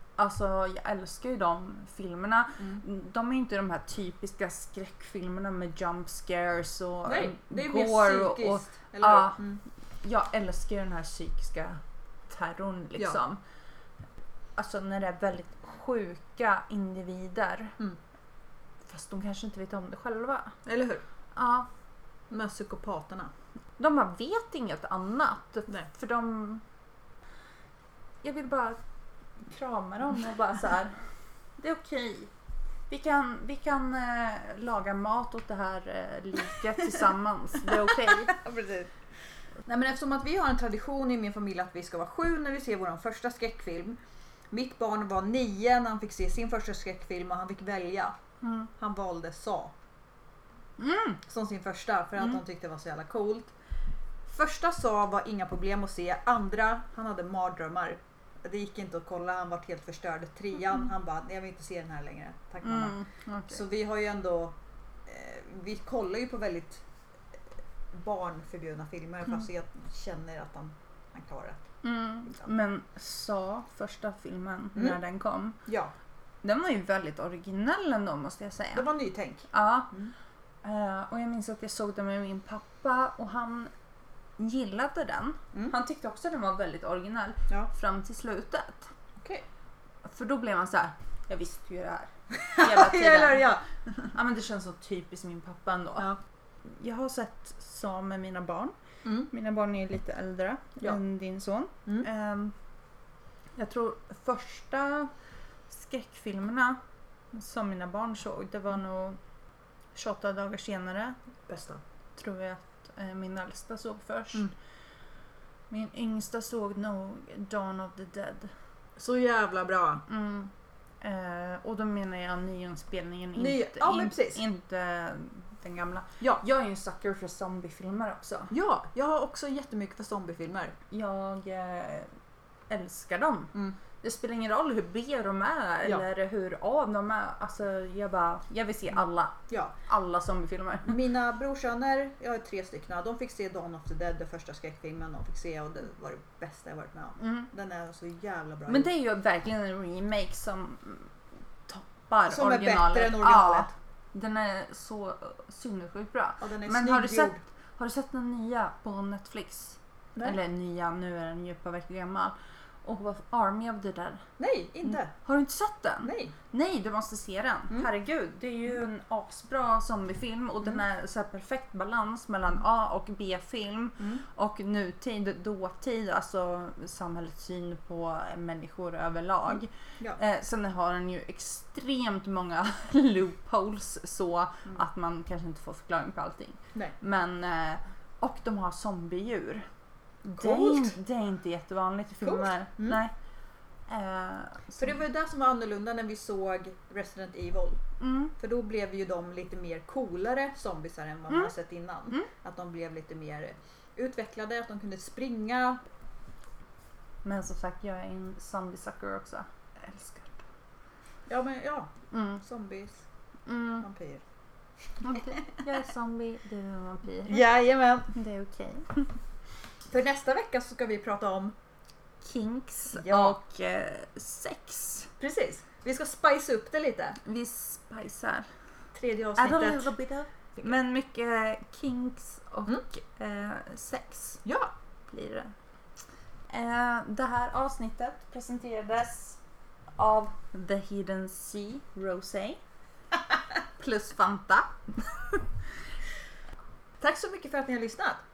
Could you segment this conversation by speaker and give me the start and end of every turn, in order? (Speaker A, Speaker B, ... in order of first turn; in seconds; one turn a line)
Speaker A: 0.2-9.4
Speaker B: 7.0-9.6
Speaker A: 10.0-13.4
Speaker A: 14.6-17.8
Speaker A: 18.8-20.5
Speaker B: 20.6-21.0
Speaker A: 21.3-21.7
Speaker B: 22.3-23.3
Speaker A: 23.8-26.6
Speaker A: 28.2-28.8
Speaker A: 29.4-30.9
Speaker A: 31.6-32.3
Speaker A: 32.9-38.4
Speaker B: 38.3-38.9
Speaker B: 39.6-44.0
Speaker B: 44.5-48.1
Speaker A: 48.4-48.7
Speaker B: 48.8-49.7
Speaker A: 50.8-51.2
Speaker B: 51.2-53.5
Speaker B: 54.3-64.5
Speaker A: 62.6-63.6
Speaker B: 65.1-66.8
Speaker B: 67.9-71.7
Speaker A: 71.8-75.6
Speaker B: 75.7-75.9
Speaker A: 76.4-78.9
Speaker B: 78.7-80.1
Speaker A: 79.5-79.9
Speaker A: 80.6-83.7
Speaker A: 84.4-88.9
Speaker A: 90.0-93.4
Speaker B: 92.3-93.6
Speaker A: 94.1-96.1
Speaker A: 96.7-98.8
Speaker B: 99.0-99.3
Speaker A: 99.3-102.5
Speaker A: 103.5-105.1
Speaker A: 105.7-106.8
Speaker A: 107.3-109.2
Speaker A: 109.9-111.2
Speaker B: 111.5-111.8
Speaker A: 112.2-114.5
Speaker A: 115.7-118.5
Speaker B: 119.0-120.0
Speaker A: 120.1-128.5
Speaker B: 123.3-124.4
Speaker B: 128.5-130.8
Speaker A: 130.9-132.1
Speaker A: 132.7-141.0
Speaker B: 140.9-148.9
Speaker A: 147.2-147.5
Speaker A: 148.7-151.1
Speaker A: 151.7-164.2
Speaker B: 152.3-153.7
Speaker B: 156.4-157.4
Speaker B: 164.4-165.1
Speaker A: 164.8-189.7
Speaker B: 166.0-166.3
Speaker B: 174.0-174.2
Speaker A: 190.2-193.1
Speaker B: 190.4-190.9
Speaker B: 192.2-193.0
Speaker A: 193.9-194.9
Speaker B: 194.8-197.8
Speaker A: 198.0-198.3
Speaker B: 198.4-205.8
Speaker A: 207.2-210.4
Speaker B: 211.3-213.0
Speaker A: 212.1-212.4
Speaker A: 213.4-213.9
Speaker B: 213.8-214.2
Speaker A: 215.0-217.4
Speaker B: 217.3-218.1
Speaker A: 218.1-219.1
Speaker B: 219.9-221.5
Speaker A: 222.2-225.1
Speaker B: 222.9-223.4
Speaker B: 225.2-227.2
Speaker A: 227.2-228.5
Speaker B: 228.9-229.9
Speaker A: 229.4-234.4
Speaker B: 234.4-234.7
Speaker A: 235.1-235.5
Speaker A: 236.5-239.4
Speaker A: 239.9-242.6
Speaker A: 243.8-245.4
Speaker B: 247.0-248.2